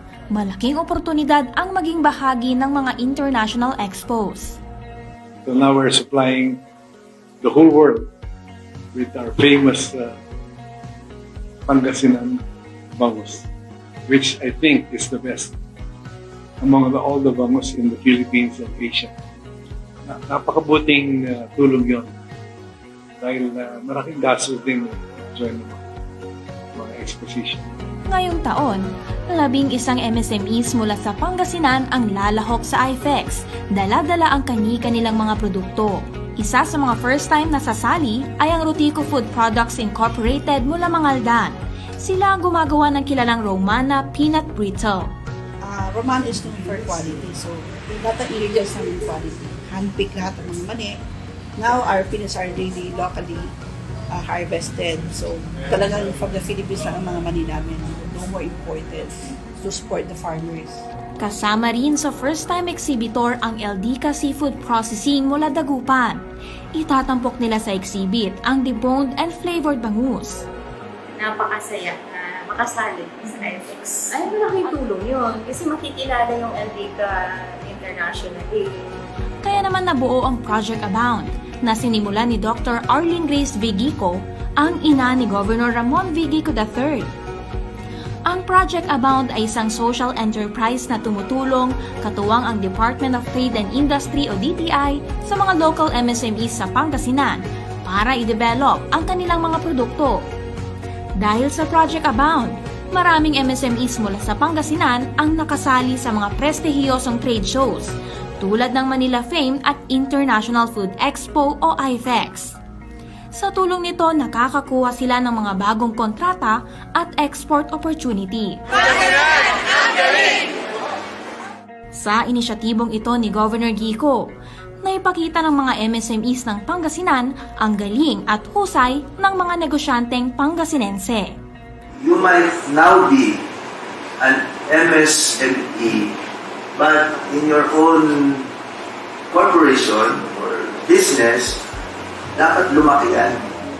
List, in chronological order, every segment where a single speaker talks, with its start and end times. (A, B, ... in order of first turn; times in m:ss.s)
0:00.3-0:04.6 A
0:05.4-0:06.6 B
0:07.4-0:08.1 B
0:08.9-0:10.2 B
0:11.7-0:12.4 B
0:13.0-0:13.5 B
0:14.1-0:15.6 B
0:16.6-0:19.1 B
0:20.0-0:22.1 B
0:23.2-0:25.8 B
0:26.8-0:27.7 B
0:28.1-0:45.1 A
0:45.6-0:50.9 C
0:51.6-0:53.5 C
0:54.1-1:00.9 C
1:01.2-1:06.2 A
1:06.8-1:10.4 A
1:11.2-1:18.7 D
1:19.4-1:27.1 A
1:28.3-1:40.3 A
1:41.2-1:52.6 A
1:53.3-1:58.6 A
2:01.9-2:04.2 A
2:04.8-2:11.4 A
2:12.0-2:13.4 E
2:14.2-2:16.2 E
2:16.8-2:18.5 E
2:19.3-2:21.6 E
2:22.4-2:23.5 E